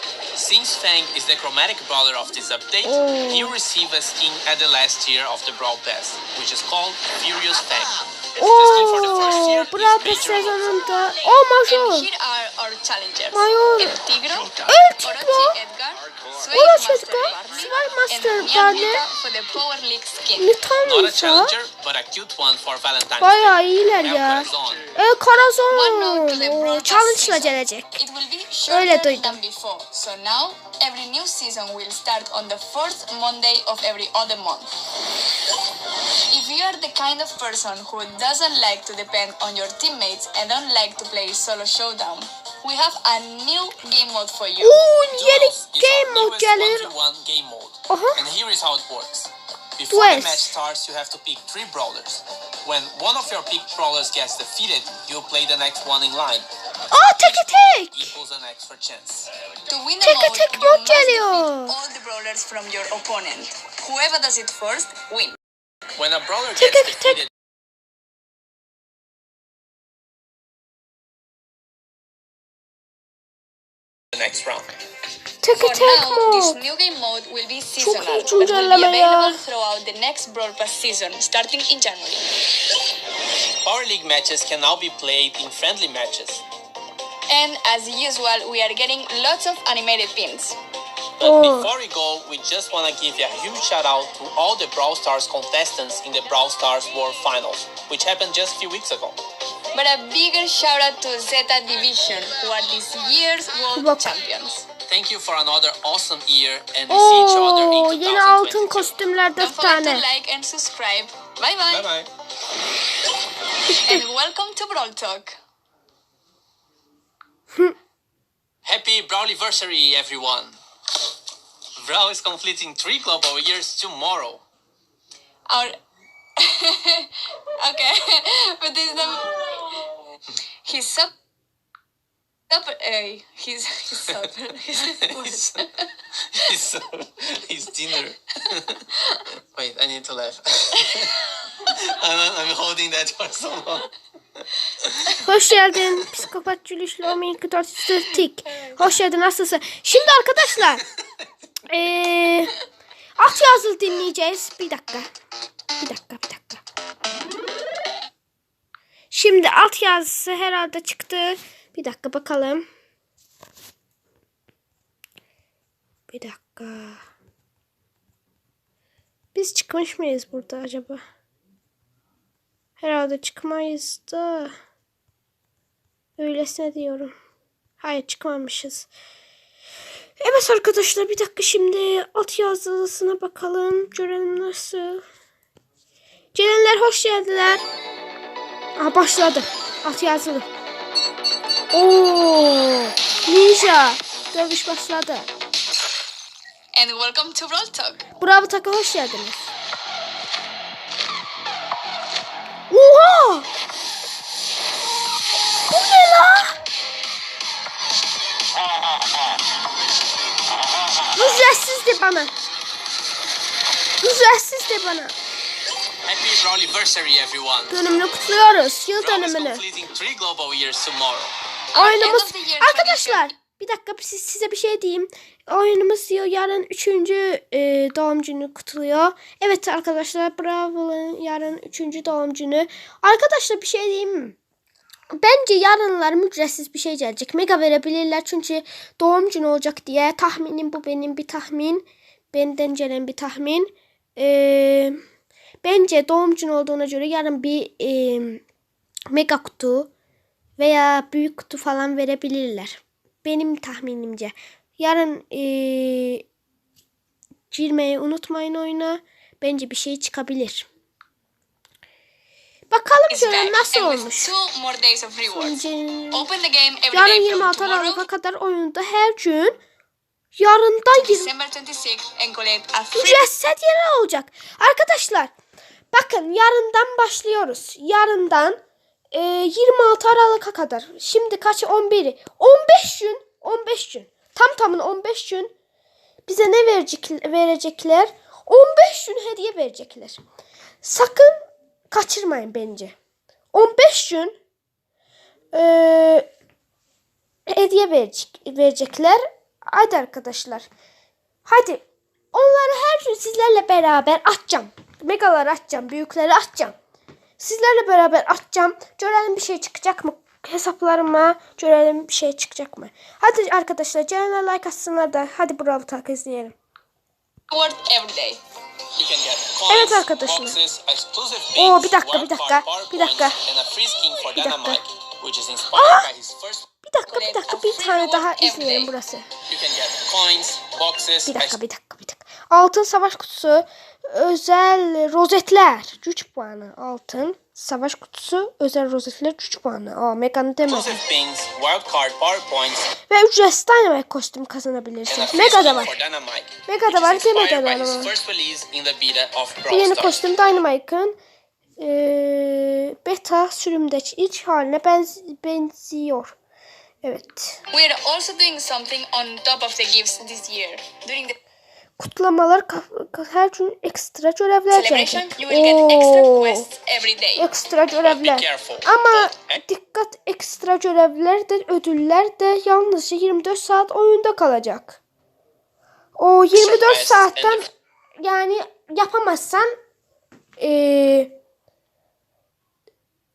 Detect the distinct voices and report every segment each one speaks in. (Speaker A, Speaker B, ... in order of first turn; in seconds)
Speaker A: 0.3-10.8, 20.8-24.9, 45.1-59.3, 65.9-67.3, 74.1-74.7, 83.6-86.4, 91.2-99.2, 104.8-108.9, 111.7-112.1, 118.6-120.6, 121.8-124.4, 135.0-135.7, 136.3-145.1, 216.0-217.9, 219.0-221.3, 318.9-326.7, 329.5-331.6, 340.6-342.9, 345.1-350.2, 368.0-369.6, 376.5-377.7
Speaker B: 2.8-3.5, 8.4-12.1, 13.3-14.1, 14.6-15.6, 16.5-19.0, 20.4-21.5, 23.2-28.0, 28.7-29.4, 44.6-46.9, 47.9-48.2, 49.9-50.5, 56.9-58.1, 60.0-61.8, 66.6-67.2, 75.4-76.6, 77.8-79.4, 91.2-91.7, 103.8-104.1, 106.9-110.0, 113.7-114.0, 145.2-150.8, 151.7-152.6, 153.2-155.1, 155.8-156.6, 159.1-162.6, 166.1-167.0, 169.3-171.0, 172.8-174.5, 176.2-177.1, 177.8-178.9, 180.2-185.0, 186.3-187.6, 188.8-190.5, 191.7-195.3, 198.2-199.5, 202.7-203.5, 205.7-206.6, 211.1-212.3, 214.0-215.1, 217.7-219.6, 221.8-234.4, 235.1-245.0, 245.6-248.4, 249.1-249.9, 250.6-256.2, 257.5-260.7, 262.7-264.3, 265.3-266.3, 266.9-269.6, 270.4-271.3, 272.9-275.3, 275.9-278.6, 279.1-285.5, 286.2-290.2, 290.8-292.9, 293.5-294.3, 295.5-296.3, 297.5-300.7, 301.4-306.7, 307.4-316.6, 319.7-320.6, 321.6-323.4, 324.3-324.8, 325.7-326.1, 326.8-329.3, 331.2-341.0, 343.1-346.0, 346.6-348.1, 349.7-351.1, 351.8-356.3, 357.0-357.6, 362.0-366.7, 367.4-375.0, 376.2-379.7, 380.6-381.3
Speaker C: 11.7-20.5, 25.7-34.7, 36.3-44.9, 59.7-65.4, 75.5-82.3, 87.3-90.6, 99.7-104.7, 109.4-111.9, 113.7-115.4, 125.5-125.8, 126.4-130.1, 130.6-131.1, 132.5-135.9, 148.5-148.8, 196.7-198.1, 221.7-223.3, 263.1-268.1, 270.9-273.3, 317.5-318.4, 327.1-328.9, 357.7-361.4, 364.7-367.5